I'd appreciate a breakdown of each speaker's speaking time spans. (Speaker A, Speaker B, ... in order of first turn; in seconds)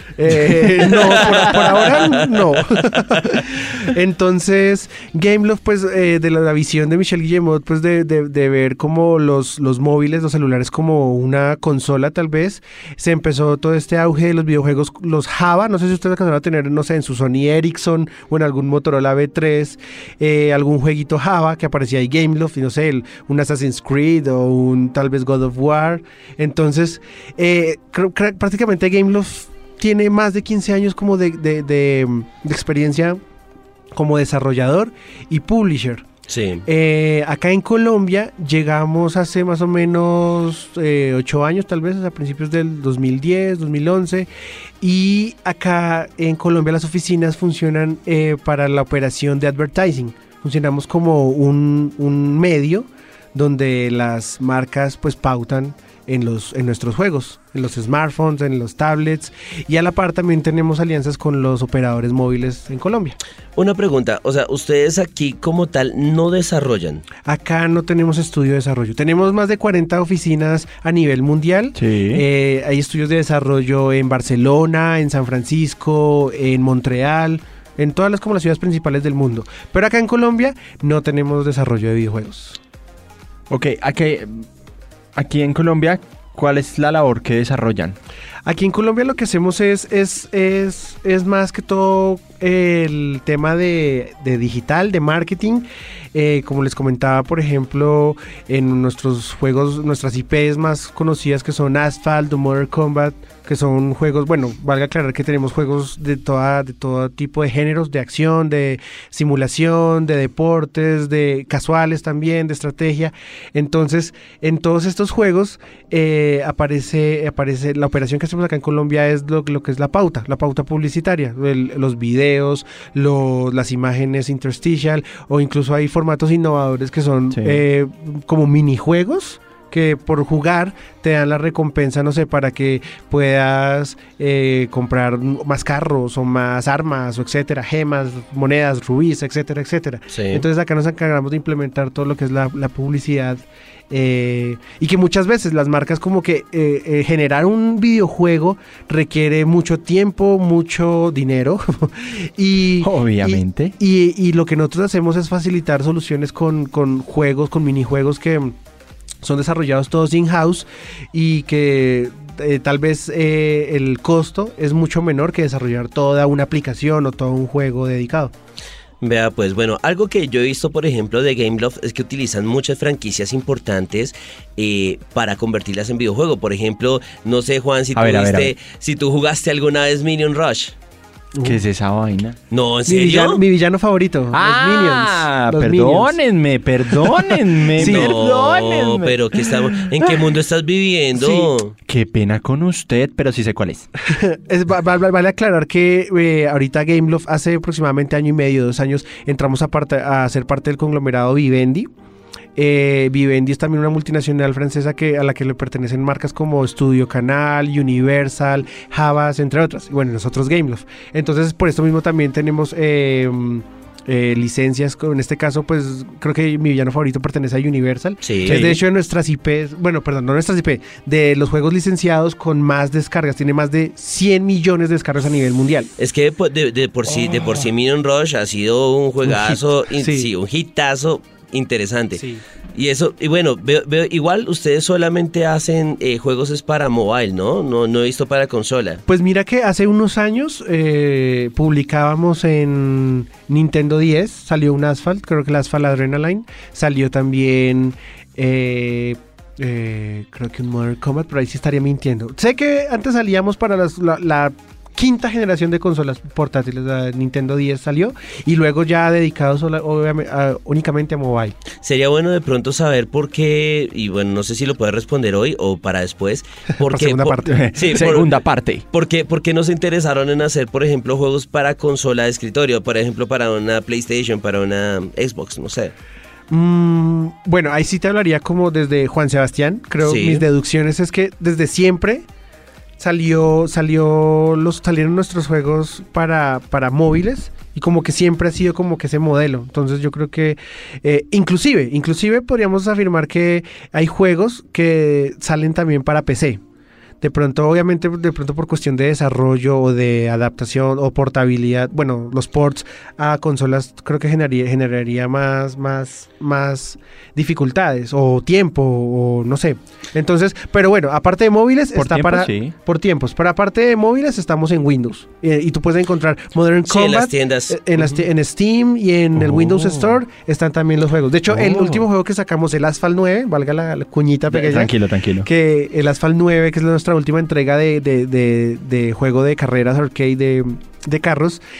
Speaker A: 0.2-33.2, 33.9-36.0, 36.6-63.2, 67.2-82.6, 88.5-158.6, 159.2-168.3, 181.3-181.6, 182.9-186.2, 186.9-188.2, 191.1-191.5, 194.1-201.9, 202.6-225.9, 229.2-230.3, 232.2-232.4, 239.1-261.5, 266.8-267.6, 276.5-282.2, 283.0-296.6, 297.2-331.6
Speaker B: 0.3-1.4, 71.8-72.2, 83.5-84.5, 85.2-88.0, 127.3-127.6, 152.8-153.7, 177.9-178.5, 181.4-182.4, 184.3-189.5, 191.9-193.9, 218.4-218.8, 267.5-268.8, 311.9-312.7, 319.4-320.1, 321.5-322.1, 324.5-325.5
Speaker C: 0.9-3.0, 36.3-36.6, 63.5-67.0, 140.1-140.4, 169.0-180.7, 182.5-183.4, 187.7-191.7, 218.2-218.6, 226.0-232.2, 232.7-239.0, 261.8-268.4, 268.9-275.9, 280.0-280.4, 316.9-318.1